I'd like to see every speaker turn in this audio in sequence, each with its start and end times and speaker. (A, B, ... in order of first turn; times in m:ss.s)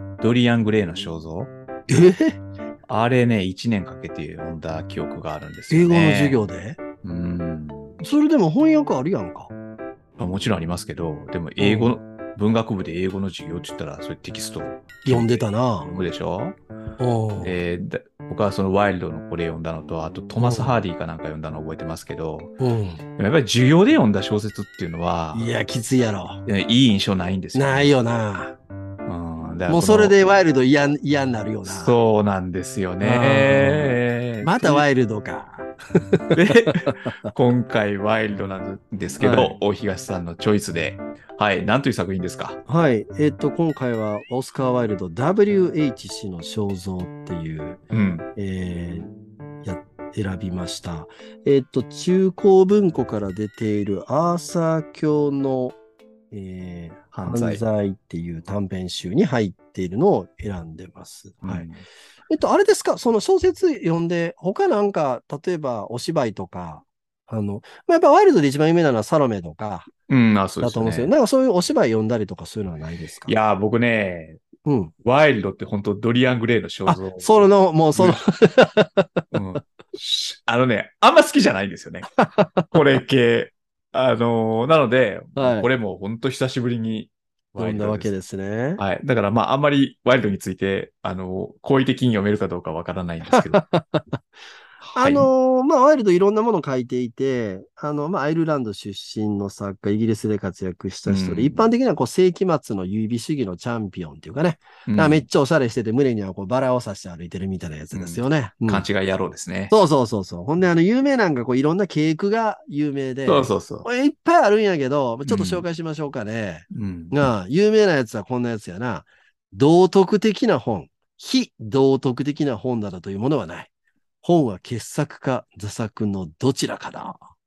0:00.2-0:01.5 A
0:01.9-0:02.4 B
0:02.9-0:06.4 A
0:05.7-0:06.8 B
0:07.0-0:08.0 A
0:08.0-0:09.5 B
0:10.2-0:16.6 A
0:11.6-0:11.9 B
0:15.1-0:15.9 B
0:17.0-0:17.6 B
0:17.4-0:22.5 A
0:20.4-0:20.8 B
0:22.6-0:23.0 B
0:23.2-0:25.5 A
0:25.3-0:26.4 B
0:26.5-0:27.9 A
0:27.5-0:28.6 B
0:29.1-0:30.2 A
0:29.7-0:32.0 B
0:31.7-0:34.8 A
0:33.0-0:37.1 B
0:36.3-0:42.6 A
0:39.2-0:39.6 B
0:42.7-0:47.8 B
0:47.9-0:48.3 A
0:48.4-0:49.1 B
0:49.6-0:55.8 B
0:56.3-1:01.7 B
0:57.1-0:57.6 A
1:01.4-1:01.8 A
1:02.3-1:09.9 B
1:10.1-1:11.1 A
1:10.6-1:13.3 B
1:13.3-1:14.4 A
1:14.7-1:14.9 B
1:15.0-1:18.2 A
1:16.9-1:19.2 B
1:19.3-1:22.1 A
1:22.2-1:22.8 B
1:22.7-1:28.1 A
1:25.4-1:25.7 B
1:27.6-1:28.8 B
1:28.8-1:33.6 A
1:33.3-1:34.2 B
1:34.9-1:35.3 A
1:34.9-1:48.8 B
1:41.0-1:41.7 A
1:44.9-1:45.3 A
1:47.9-1:49.7 A
1:49.7-2:03.7 B
1:53.3-1:53.9 A
1:55.3-1:55.6 A
1:56.7-1:57.3 A
2:04.2-2:07.2 B